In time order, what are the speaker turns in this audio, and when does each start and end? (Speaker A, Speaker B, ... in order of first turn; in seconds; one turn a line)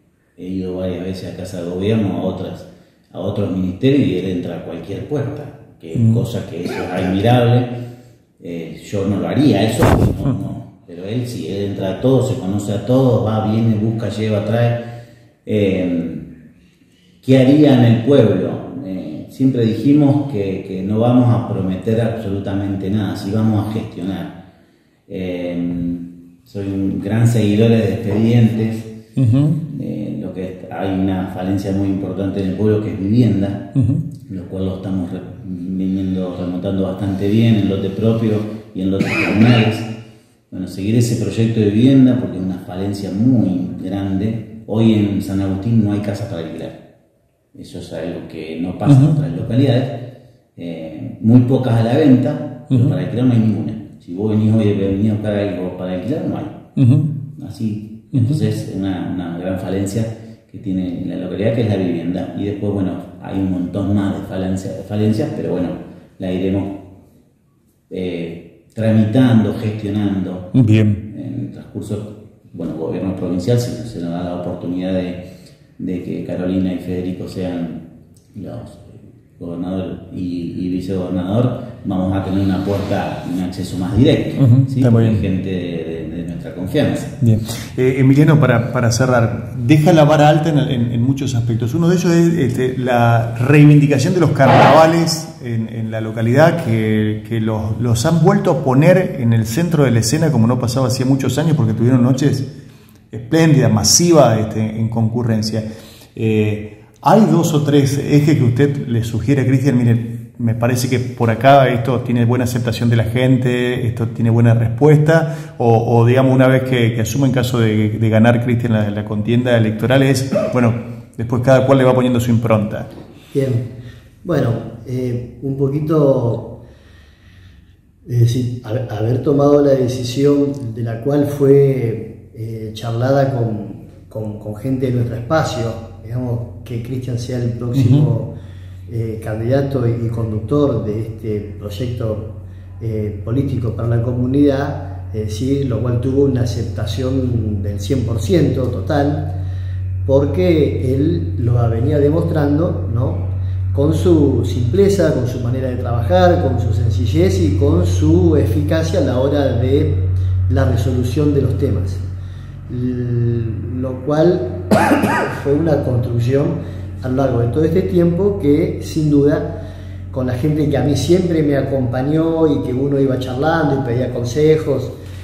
Speaker A: 0.4-7.7
Speaker B: 6.0-6.2
Speaker A: 8.4-14.8
Speaker A: 15.4-16.3
Speaker A: 17.2-24.4
Speaker A: 25.1-28.9
Speaker B: 29.2-29.6
Speaker A: 29.6-33.7
Speaker B: 33.8-34.1
Speaker A: 34.2-39.9
Speaker A: 40.5-46.8
Speaker A: 47.5-56.6
Speaker B: 48.9-49.2
Speaker B: 52.7-53.0
Speaker B: 56.8-57.1
Speaker A: 57.4-66.8
Speaker B: 58.1-58.4
Speaker A: 67.9-70.5
Speaker B: 70.5-71.0
Speaker A: 71.0-75.2
Speaker A: 75.8-87.2
Speaker B: 84.4-85.3
Speaker B: 87.2-102.5
Speaker B: 103.1-122.9
Speaker C: 123.3-123.7
Speaker C: 124.2-126.6
Speaker C: 128.1-138.3
Speaker B: 137.7-138.1
Speaker C: 138.9-149.3
Speaker C: 150.1-162.0
Speaker C: 162.7-164.6
Speaker C: 165.1-169.5
Speaker C: 170.1-174.9